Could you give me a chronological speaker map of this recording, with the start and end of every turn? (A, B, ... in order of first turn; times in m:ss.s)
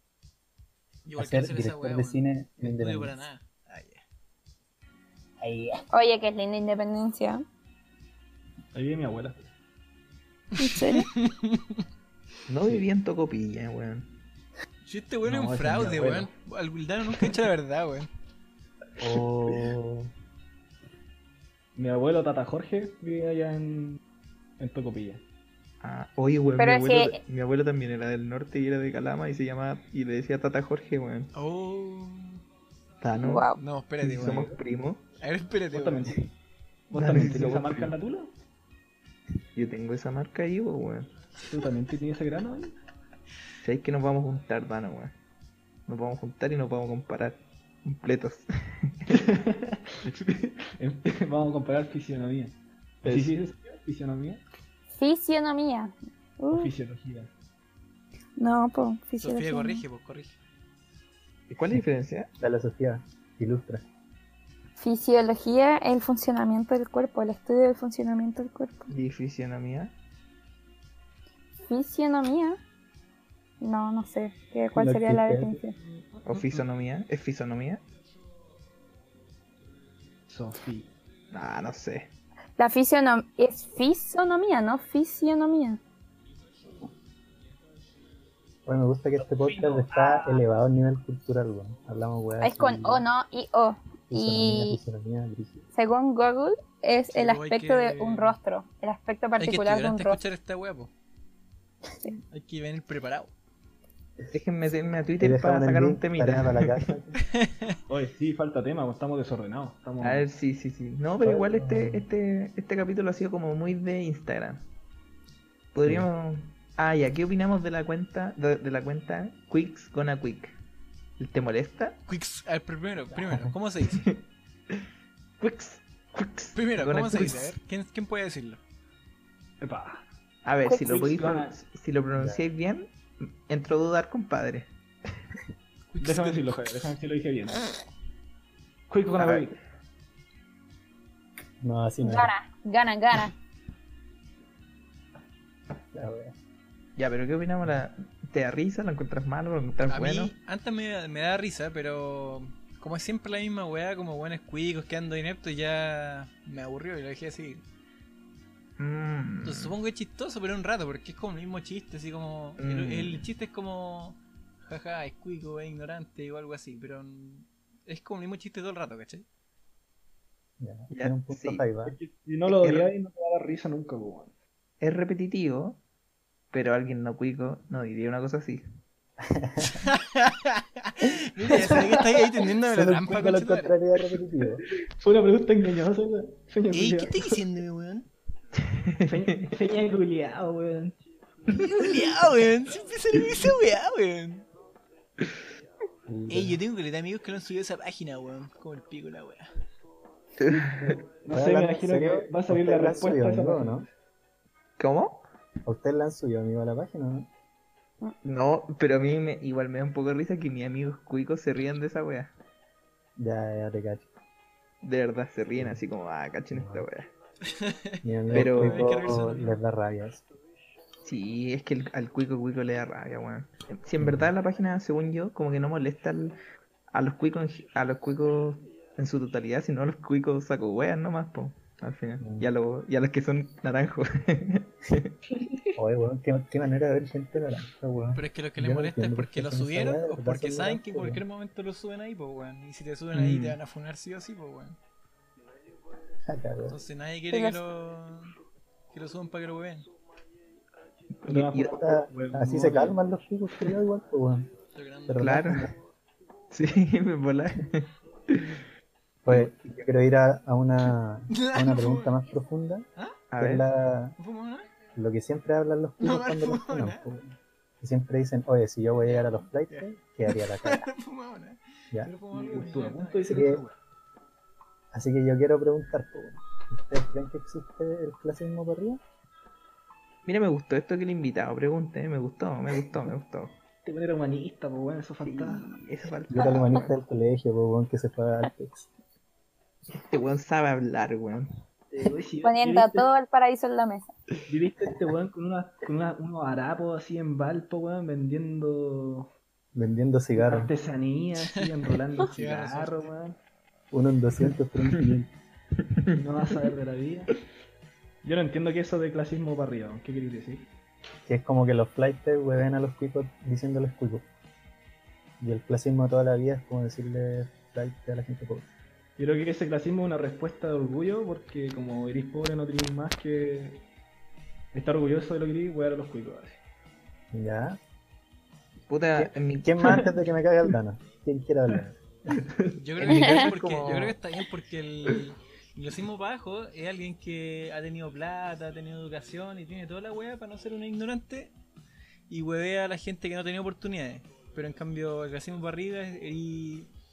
0:01.1-0:04.0 A
0:01.2-0:03.2 B
0:05.4-0:05.7 B
0:05.9-0:07.4 C
0:08.7-0:09.5 D
0:10.6-0:11.8 A
0:10.6-0:11.1 C
0:12.5-0:14.1 E
0:14.8-0:18.1 A
0:15.2-0:16.3 D
0:19.0-0:20.1 B
0:19.1-0:19.6 D
0:21.8-0:24.0 D
0:24.6-0:25.2 D
0:25.8-0:31.3 E
0:26.6-0:27.2 C
0:31.3-0:32.4 A
0:33.0-0:33.5 E
0:33.2-0:33.6 C
0:33.6-0:34.5 A
0:34.0-0:35.0 E
0:35.2-0:36.2 A
0:35.7-0:36.3 D
0:36.9-0:38.3 D
0:36.9-0:38.0 E
0:39.6-0:41.1 E
0:41.4-0:42.7 D
0:43.6-0:45.1 E
0:45.9-0:49.2 E
0:49.1-0:54.4 D
0:53.0-0:53.4 E
0:54.9-0:56.7 C
0:56.5-0:57.3 D
0:58.4-0:59.8 C
0:59.2-1:00.4 A
1:01.5-1:02.3 E
1:02.4-1:03.8 B
1:04.8-1:08.9 C
1:08.9-1:09.9 E
1:11.7-1:12.6 C
1:13.6-1:15.8 C
1:14.8-1:15.6 B
1:16.0-1:16.4 D
1:16.2-1:17.8 E
1:20.3-1:20.9 D
1:21.3-1:22.1 E
1:22.6-1:25.8 C
1:28.7-1:33.0 B
1:29.2-1:30.4 D
1:32.4-1:34.8 C
1:34.1-1:35.7 B
1:35.7-1:40.2 C
1:37.1-1:38.4 A
1:39.4-1:40.9 A
1:42.3-1:43.3 A
1:44.3-1:46.9 E
1:45.2-1:47.2 B
1:47.3-1:47.8 A
1:47.9-1:50.3 D
1:50.0-1:54.6 E
1:51.2-1:52.1 B
1:55.7-2:00.6 E
2:01.2-2:02.0 E
2:02.1-2:04.1 A
2:03.9-2:04.8 E
2:05.4-2:07.6 E
2:06.6-2:08.6 A
2:09.6-2:10.0 D
2:10.4-2:14.7 E
2:10.7-2:11.0 C
2:10.8-2:11.6 D
2:12.2-2:12.4 B
2:15.9-2:16.6 A
2:16.0-2:17.7 D
2:18.9-2:19.6 D
2:19.2-2:19.5 E
2:21.6-2:22.3 B
2:22.0-2:23.3 C
2:25.9-2:26.4 B
2:27.0-2:30.3 E
2:29.9-2:37.6 A
2:38.8-2:39.8 E
2:39.4-2:49.2 A
2:42.6-2:43.3 E
2:50.6-2:52.0 B
2:50.9-2:51.7 E
2:51.8-2:54.3 D
2:52.5-2:52.9 E
2:54.8-2:55.8 E
2:56.5-2:58.6 E
2:59.2-2:59.9 B
2:59.8-3:03.7 A
3:02.7-3:04.6 B
3:05.0-3:07.4 D
3:06.7-3:08.1 A
3:08.7-3:09.6 E
3:09.0-3:11.0 D
3:11.5-3:14.5 A
3:16.1-3:16.6 B
3:16.3-3:19.5 A
3:20.4-3:21.0 E
3:20.5-3:23.9 D
3:21.3-3:23.9 B
3:24.8-3:25.3 E
3:25.7-3:27.3 B
3:28.2-3:32.3 E
3:33.2-3:34.1 B
3:34.8-3:37.1 E
3:35.6-3:35.8 B
3:36.5-3:36.9 B
3:37.5-3:39.6 A
3:38.0-3:40.2 B
3:38.3-3:39.1 E
3:41.0-3:46.4 E
3:46.9-3:55.1 E
3:52.2-3:52.5 B
3:55.8-4:01.2 B
3:58.1-4:04.8 A
4:03.2-4:03.5 E
4:06.3-4:06.8 B
4:06.7-4:08.4 A
4:07.3-4:07.6 C
4:08.9-4:09.9 A
4:11.2-4:11.8 E
4:11.3-4:13.0 D
4:11.7-4:14.5 B
4:14.7-4:15.4 A
4:15.1-4:15.7 B
4:15.2-4:15.7 E
4:16.5-4:18.6 E
4:19.2-4:22.9 B
4:21.3-4:22.2 A
4:23.0-4:23.2 A
4:23.3-4:23.7 E
4:23.4-4:24.2 B
4:24.2-4:24.7 A
4:25.0-4:30.9 B
4:26.0-4:27.0 A
4:29.0-4:33.7 A
4:32.3-4:33.6 D
4:33.3-4:33.6 B
4:34.9-4:39.0 B
4:40.3-4:43.6 E
4:43.8-4:45.8 D
4:45.2-4:46.9 E
4:46.3-4:48.9 B
4:49.9-4:51.5 E
4:51.9-4:53.1 D
4:52.4-4:54.1 C
4:54.5-4:59.3 D
4:59.7-5:00.7 B
5:00.4-5:03.4 D
5:02.2-5:03.1 A
5:03.9-5:05.3 B
5:06.1-5:07.4 D
5:08.2-5:10.7 D
5:11.3-5:14.3 B
5:15.4-5:18.7 B
5:19.2-5:23.9 D
5:24.7-5:26.6 D
5:27.3-5:27.8 B
5:28.9-5:30.1 E
5:29.2-5:32.4 B
5:32.4-5:32.8 D
5:32.7-5:41.5 A
5:33.0-5:34.2 E
5:33.1-5:33.4 C
5:42.3-5:46.9 A